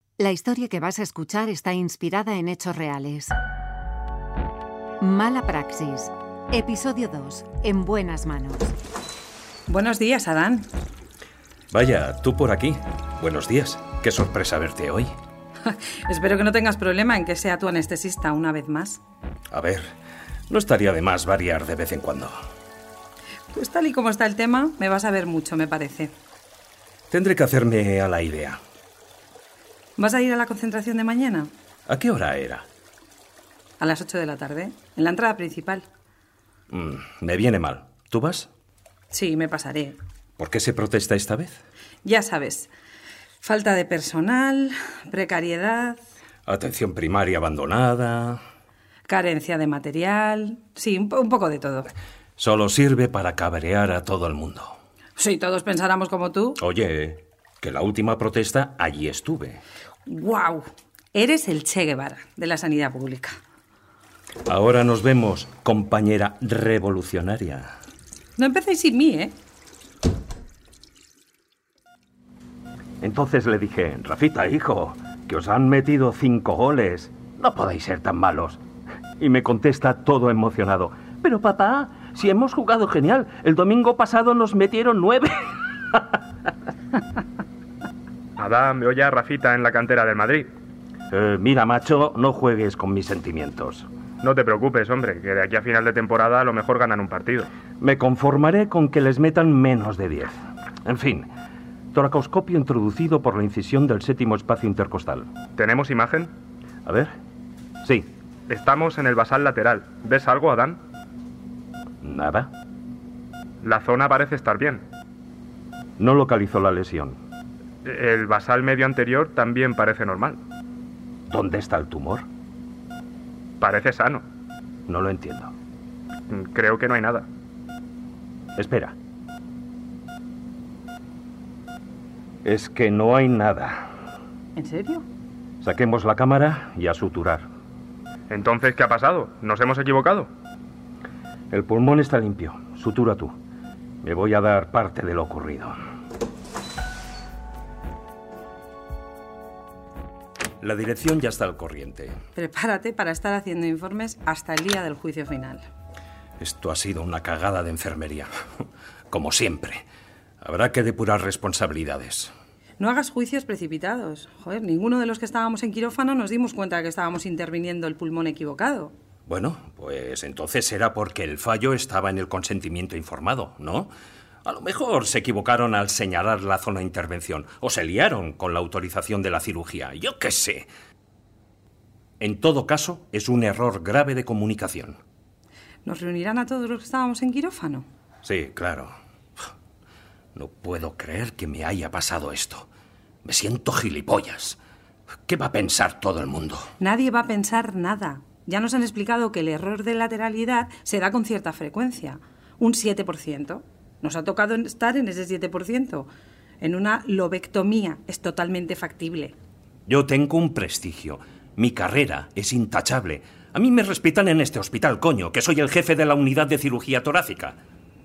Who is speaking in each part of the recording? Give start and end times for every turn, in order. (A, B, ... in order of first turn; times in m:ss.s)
0:00.2-0:03.3 A
0:05.0-0:08.7 A
0:09.7-0:10.7 B
0:11.7-0:15.1 C
0:15.6-0:19.0 B
0:19.5-0:19.9 C
0:20.5-0:22.4 C
0:23.5-0:26.1 B
0:27.1-0:28.6 C
0:30.0-0:31.5 B
0:31.9-0:32.7 C
0:33.8-0:35.8 B
0:36.7-0:38.5 C
0:39.1-0:40.0 B
0:40.4-0:41.6 C
0:42.0-0:42.7 B
0:43.4-0:46.0 B
0:46.4-0:48.4 C
0:49.1-0:51.9 B
0:52.4-0:54.8 C
0:55.2-0:56.6 B
0:56.6-0:59.6 C
1:00.1-1:03.4 B
1:04.4-1:07.8 C
1:08.4-1:09.3 B
1:13.0-1:18.6 C
1:19.2-1:26.2 C
1:28.4-1:30.5 D
1:31.1-1:33.9 C
1:34.2-1:37.5 D
1:37.8-1:41.3 C
1:41.9-1:45.3 C
1:45.6-1:46.3 D
1:46.8-1:47.1 C
1:47.8-1:48.1 C
1:48.5-1:50.8 D
1:52.0-1:52.5 C
1:53.6-1:54.8 D
1:56.0-1:57.2 C
1:57.8-2:00.4 D
2:01.3-2:02.3 C
2:03.6-2:04.2 D
2:04.9-2:05.5 C
2:06.3-2:07.3 D
2:08.6-2:09.0 C
2:12.4-2:13.9 C
2:14.6-2:15.0 B
2:15.6-2:17.5 C
2:18.3-2:20.3 D
2:21.5-2:23.4 C
2:24.0-2:25.8 C
2:30.6-2:32.2 C
2:32.4-2:35.6 B
2:36.4-2:38.3 C
2:39.1-2:39.8 C
2:40.4-2:42.3 C
2:42.8-2:48.9 B
2:49.3-2:53.9 C
2:54.4-3:00.7 C
3:02.2-3:05.0 C
3:05.8-3:07.9 B
3:08.2-3:08.9 C
3:10.3-3:12.7 C
3:13.2-3:14.6 C
3:15.3-3:16.7 C
3:16.8-3:26.1 B
3:26.6-3:29.3 B
3:29.9-3:37.6 C